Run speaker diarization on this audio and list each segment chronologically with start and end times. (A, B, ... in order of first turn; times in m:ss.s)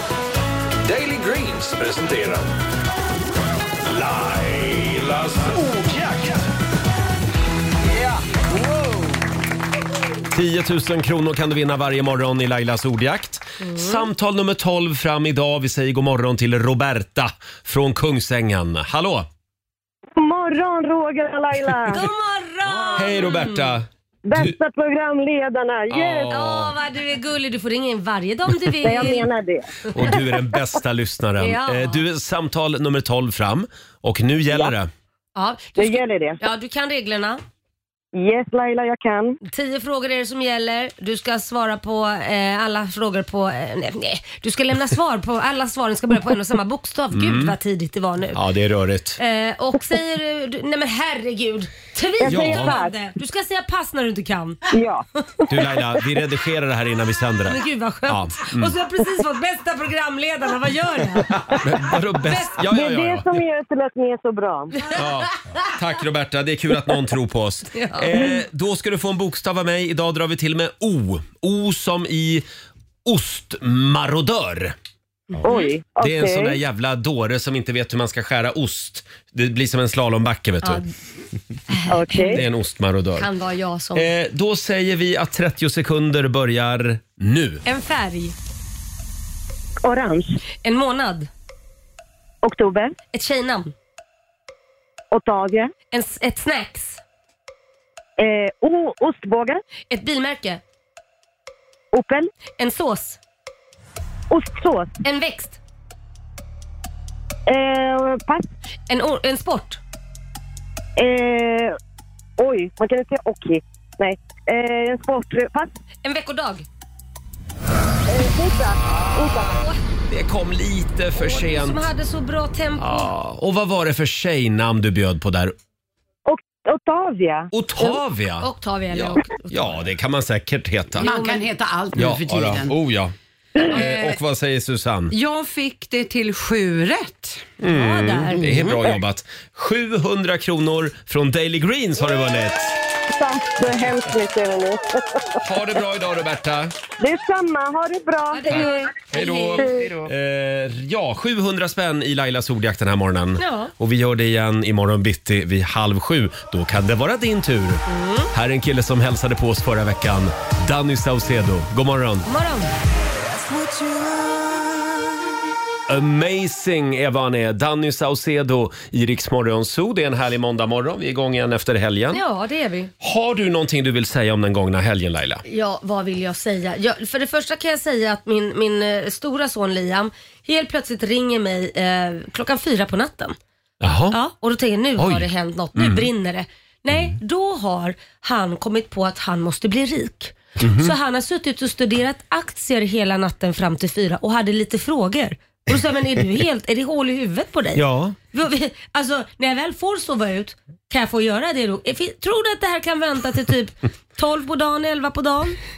0:00.9-0:02.4 A
0:03.9-0:05.5 A
0:10.3-0:19.3 B
0:13.6-0:14.1 C
0:20.2-0:22.0 D
0:21.9-0:23.8 C
0:22.9-0:24.5 B
0:24.3-0:26.3 D
0:25.9-0:26.7 B
0:26.3-0:29.2 C
0:28.8-0:29.7 D
0:29.9-0:34.9 B
0:31.4-0:32.0 C
0:35.4-0:37.4 C
0:35.8-0:36.4 D
0:38.2-0:39.4 D
0:39.4-0:48.4 C
0:47.1-0:47.5 B
0:48.3-0:49.2 B
0:49.2-0:54.6 C
0:52.2-0:52.9 D
0:52.2-0:52.8 B
0:54.7-0:55.4 D
0:55.5-0:58.7 B
0:57.4-1:01.4 C
1:01.3-1:03.4 B
1:02.2-1:02.6 C
1:02.7-1:04.7 D
1:04.9-1:12.4 B
1:07.7-1:08.3 C
1:13.0-1:14.7 B
1:15.4-1:15.7 C
1:15.4-1:16.6 D
1:16.0-1:20.8 B
1:21.7-1:22.4 C
1:21.9-1:22.4 D
1:22.3-1:23.3 B
1:23.2-1:24.1 C
1:23.9-1:27.6 B
1:27.6-1:28.3 C
1:29.8-1:30.4 D
1:30.6-1:31.3 C
1:32.4-1:32.9 D
1:33.1-1:33.7 C
1:35.1-1:35.7 D
1:35.9-1:37.0 C
1:38.2-1:39.6 D
1:39.9-1:40.6 C
1:41.9-1:42.3 D
1:42.6-1:43.2 C
1:44.3-1:44.9 D
1:45.0-1:45.6 C
1:47.5-1:48.4 D
1:48.9-1:49.8 C
1:51.0-1:51.8 D
1:52.4-1:55.7 D
1:56.0-1:56.6 C
1:58.1-1:59.5 D
1:59.4-1:59.8 C
2:00.1-2:01.9 B
2:01.2-2:03.1 C
2:02.8-2:05.5 B
2:06.3-2:07.5 D
2:07.5-2:11.1 B
2:07.8-2:09.8 C
2:11.0-2:12.7 E
2:11.0-2:11.5 C
2:11.9-2:13.1 B
2:13.7-2:15.1 B
2:13.7-2:14.2 E
2:15.1-2:17.4 E
2:17.6-2:22.7 B
2:17.7-2:18.4 C
2:23.1-2:25.4 D
2:25.4-2:26.7 B
2:27.0-2:28.9 D
2:28.3-2:29.8 C
2:28.5-2:42.3 B
2:29.6-2:30.0 D
2:33.4-2:33.7 C
2:37.9-2:38.3 C
2:42.2-2:42.7 C
2:45.9-2:52.2 B
2:52.1-2:52.9 C
2:53.0-2:55.4 B
2:55.4-3:03.4 C
3:03.8-3:04.2 B
3:04.1-3:25.6 C
3:05.0-3:06.1 B
3:10.6-3:10.9 B
3:17.8-3:18.2 B